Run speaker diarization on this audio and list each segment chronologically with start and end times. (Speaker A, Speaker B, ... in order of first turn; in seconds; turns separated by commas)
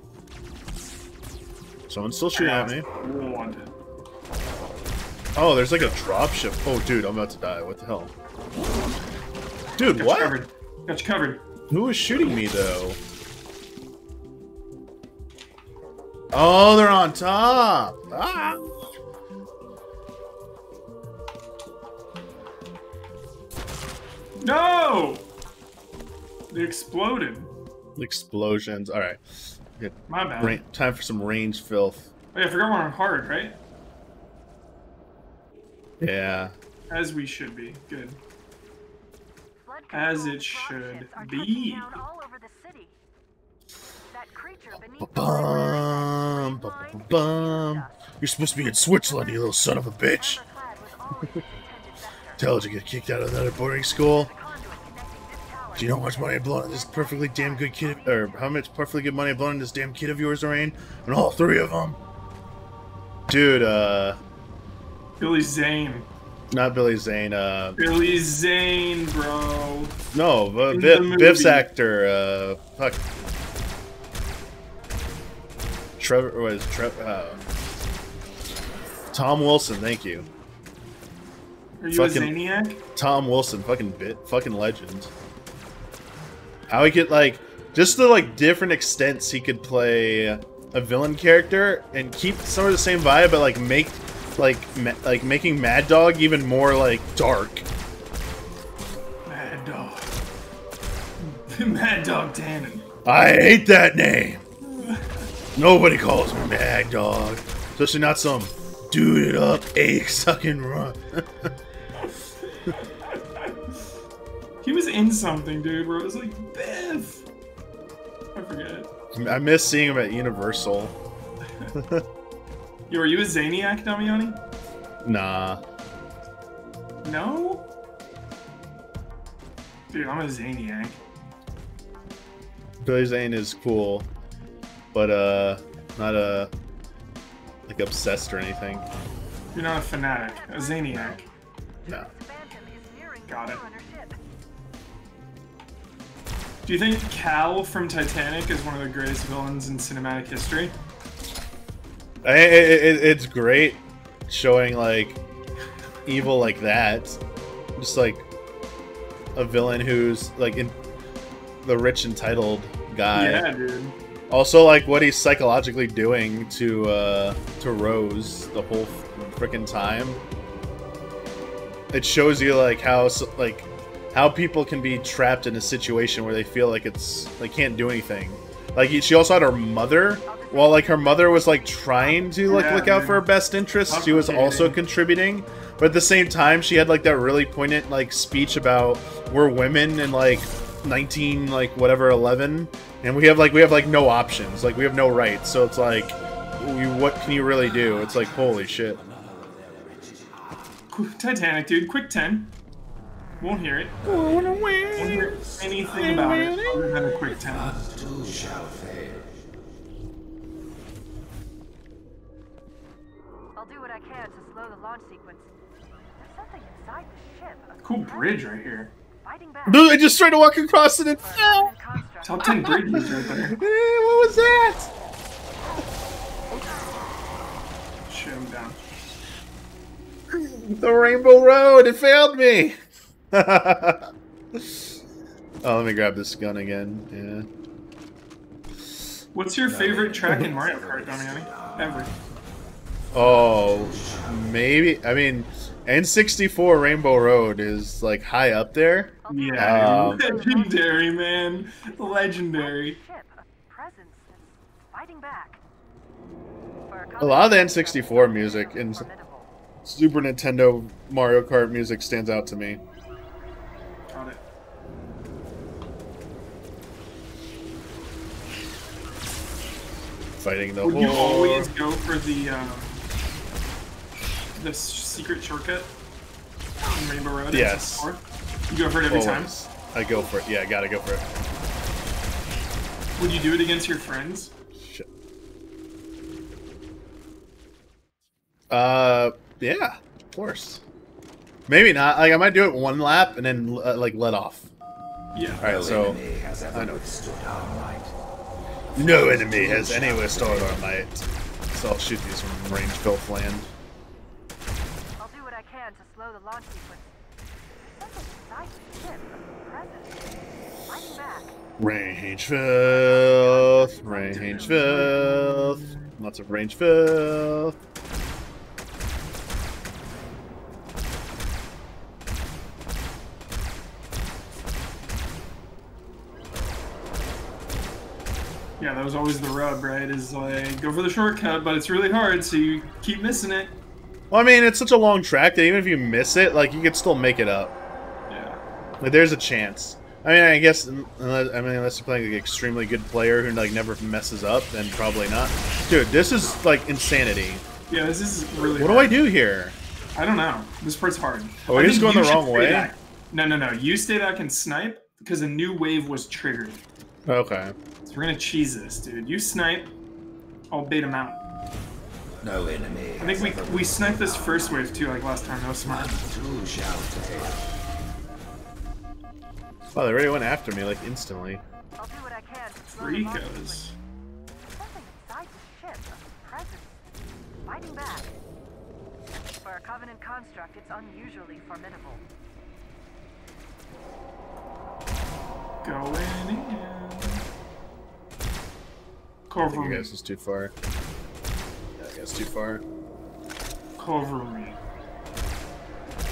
Speaker A: 1.9-2.9, Speaker B: 2.3-3.7, Speaker A: 5.3-8.1, Speaker A: 9.8-10.4, Speaker B: 9.8-11.4, Speaker A: 11.7-13.0, Speaker A: 16.3-18.6, Speaker B: 24.4-25.2, Speaker B: 26.5-27.5, Speaker A: 28.0-29.2, Speaker A: 29.8-32.1, Speaker B: 30.1-30.6, Speaker B: 32.3-33.6, Speaker A: 36.0-36.5, Speaker B: 36.9-38.2, Speaker C: 39.6-42.9, Speaker B: 39.9-42.0, Speaker C: 44.1-48.0, Speaker A: 45.0-50.4, Speaker C: 48.5-52.4, Speaker A: 52.4-54.3, Speaker C: 53.9-58.5, Speaker A: 55.8-62.0, Speaker A: 63.3-64.2, Speaker B: 65.2-66.1, Speaker A: 66.5-67.8, Speaker B: 67.8-70.0, Speaker A: 70.1-73.0, Speaker B: 70.7-71.7, Speaker A: 76.0-77.4, Speaker A: 79.1-80.3, Speaker B: 81.8-82.8, Speaker A: 81.9-82.3, Speaker A: 82.9-85.1, Speaker A: 86.7-97.6, Speaker B: 99.2-100.1, Speaker B: 101.2-102.9, Speaker A: 103.0-104.4, Speaker B: 104.6-105.3, Speaker A: 105.5-111.5, Speaker B: 112.8-113.8, Speaker B: 114.6-117.2, Speaker B: 118.3-118.9, Speaker A: 119.1-120.9, Speaker A: 121.7-122.0, Speaker B: 122.9-124.4, Speaker A: 125.0-125.6, Speaker B: 127.0-127.7, Speaker B: 129.9-131.0, Speaker A: 132.8-134.1, Speaker A: 134.9-136.5, Speaker A: 137.7-138.8, Speaker B: 139.5-141.2, Speaker C: 140.1-141.3, Speaker A: 140.9-141.2, Speaker C: 141.8-144.2, Speaker B: 143.3-143.6, Speaker B: 146.6-150.7, Speaker A: 152.2-155.2, Speaker A: 156.1-157.2, Speaker A: 157.8-158.2, Speaker A: 159.3-160.7, Speaker A: 161.6-163.4, Speaker B: 163.1-163.9, Speaker A: 164.3-170.2, Speaker A: 171.9-199.0, Speaker C: 180.2-182.9, Speaker B: 182.5-183.3, Speaker B: 183.9-184.8, Speaker D: 197.5-200.9, Speaker B: 200.9-202.5, Speaker B: 203.4-204.0, Speaker D: 204.0-209.5, Speaker A: 204.1-205.4, Speaker B: 204.9-207.8, Speaker A: 205.9-206.9, Speaker C: 213.5-215.5, Speaker C: 216.2-218.6, Speaker B: 217.8-218.9, Speaker C: 219.2-222.7, Speaker A: 219.7-221.7, Speaker B: 222.2-223.6, Speaker A: 222.4-224.9, Speaker B: 228.1-228.8, Speaker A: 230.3-232.8, Speaker A: 233.3-234.7, Speaker A: 235.6-237.5, Speaker B: 239.3-242.1, Speaker A: 239.7-240.5, Speaker D: 239.7-242.2, Speaker D: 243.1-244.6, Speaker A: 243.1-250.3, Speaker C: 249.2-255.6, Speaker B: 249.3-253.0, Speaker C: 256.9-259.5, Speaker A: 257.2-259.1, Speaker A: 259.8-262.8, Speaker B: 264.1-264.4, Speaker A: 270.4-271.7, Speaker B: 270.8-273.0, Speaker B: 274.3-275.9, Speaker B: 276.8-279.7, Speaker A: 277.5-278.1, Speaker A: 279.1-281.2, Speaker B: 283.2-284.5, Speaker A: 284.8-285.1, Speaker A: 288.7-290.8, Speaker A: 291.7-294.7, Speaker B: 295.3-295.9, Speaker D: 295.6-298.1, Speaker A: 295.6-296.2, Speaker A: 296.7-297.0, Speaker D: 298.9-300.9, Speaker A: 298.9-303.7, Speaker C: 305.2-307.1, Speaker C: 307.9-310.2, Speaker C: 310.9-311.6, Speaker A: 311.8-317.7, Speaker C: 312.8-315.1, Speaker B: 314.5-316.0, Speaker B: 328.8-333.7, Speaker A: 334.3-337.7, Speaker B: 338.3-338.6, Speaker A: 339.0-347.6, Speaker B: 347.9-349.3, Speaker A: 348.7-349.8, Speaker B: 350.1-356.8, Speaker A: 351.7-352.9, Speaker A: 357.2-357.7, Speaker B: 358.0-359.9, Speaker B: 360.7-361.4, Speaker D: 362.4-364.9, Speaker B: 363.2-366.1, Speaker D: 365.8-367.7, Speaker A: 369.9-371.6, Speaker C: 372.0-373.9, Speaker B: 372.9-373.9, Speaker C: 374.6-377.0, Speaker C: 377.6-378.4, Speaker C: 379.6-382.2, Speaker B: 385.8-387.4, Speaker B: 389.5-390.1, Speaker A: 389.7-390.7, Speaker A: 392.0-392.8, Speaker B: 394.0-394.8